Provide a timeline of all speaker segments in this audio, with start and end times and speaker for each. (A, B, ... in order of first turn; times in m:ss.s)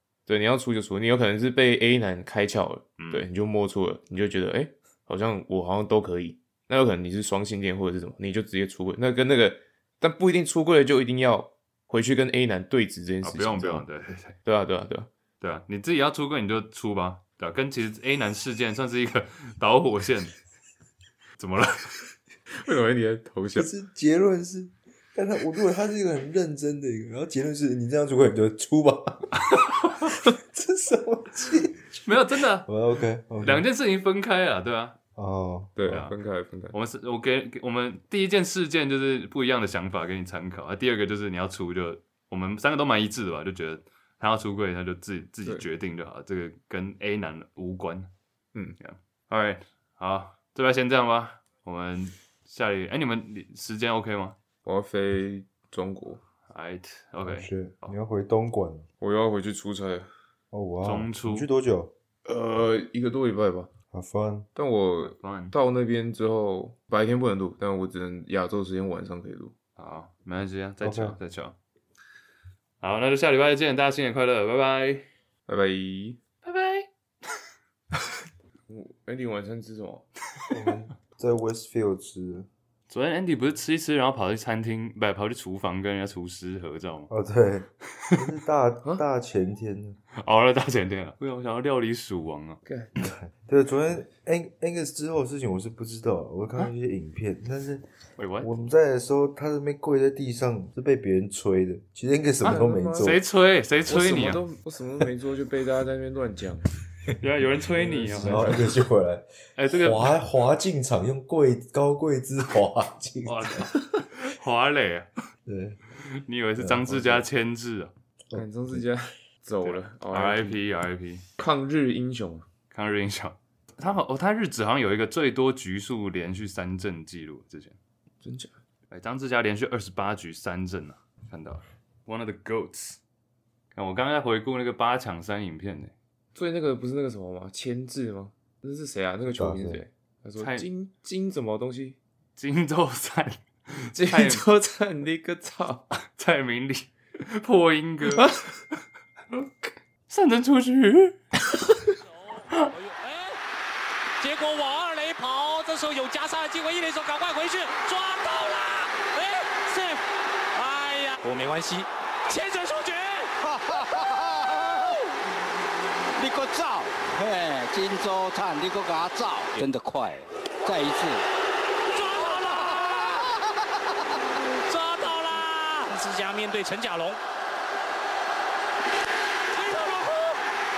0:00.3-0:13.8 A
0:03.0-0:03.2 B
0:13.2-0:14.4 B
0:14.4-0:15.1 A
0:15.4-0:20.4 B
0:21.4-0:22.0 B
0:22.6-0:23.7 A
0:23.5-0:29.4 C
0:29.4-0:30.2 B
0:30.2-0:32.1 C
0:32.0-0:32.7 B
0:32.6-0:33.7 C
0:33.4-0:35.0 B
0:35.2-0:35.7 C
0:35.8-0:36.7 A
0:35.9-0:36.1 B
0:36.7-0:48.1 B
0:48.8-0:54.4 B
0:54.6-0:56.2 A
0:56.5-0:58.0 B
0:57.2-0:58.9 C
0:59.0-1:00.1 A
1:00.5-1:01.9 C
1:00.8-1:01.5 B
1:02.2-1:03.7 A
1:03.9-1:04.5 C
1:04.5-1:09.5 A
1:05.0-1:05.5 B
1:09.8-1:11.6 B
1:10.8-1:11.2 C
1:12.8-1:15.0 B
1:15.5-1:16.2 A
1:16.4-1:16.9 B
1:18.7-1:20.1 A
1:20.5-1:22.5 C
1:22.9-1:27.1 B
1:27.1-1:30.0 C
1:30.2-1:32.6 B
1:32.6-1:32.9 A
1:33.0-1:37.8 C
1:38.2-1:38.5 B
1:38.4-1:43.2 C
1:42.4-1:43.2 A
1:42.4-1:44.4 B
1:43.9-1:46.7 A
1:47.2-1:48.7 B
1:47.8-1:48.6 A
1:48.1-1:53.7 C
1:49.6-1:50.1 B
1:53.2-1:55.1 B
1:55.4-1:55.8 C
1:56.2-1:57.9 B
1:56.6-1:57.3 C
1:58.3-1:58.8 C
1:58.3-2:00.6 A
1:59.6-2:01.2 B
2:01.4-2:02.4 A
2:02.7-2:07.8 B
2:08.2-2:08.5 A
2:08.9-2:13.0 B
2:13.7-2:15.9 B
2:16.3-2:22.0 A
2:19.3-2:19.8 C
2:20.4-2:20.7 B
2:22.4-2:24.4 B
2:24.0-2:25.9 A
2:26.0-2:28.3 B
2:28.1-2:28.5 A
2:30.1-2:31.2 B
2:32.0-2:33.4 D
2:34.2-2:40.0 D
2:40.5-2:43.3 D
2:43.4-2:45.0 E
2:46.2-2:51.2 E
2:51.9-2:53.2 D
2:52.2-2:53.5 E
2:54.4-2:57.2 D
2:59.5-3:00.4 D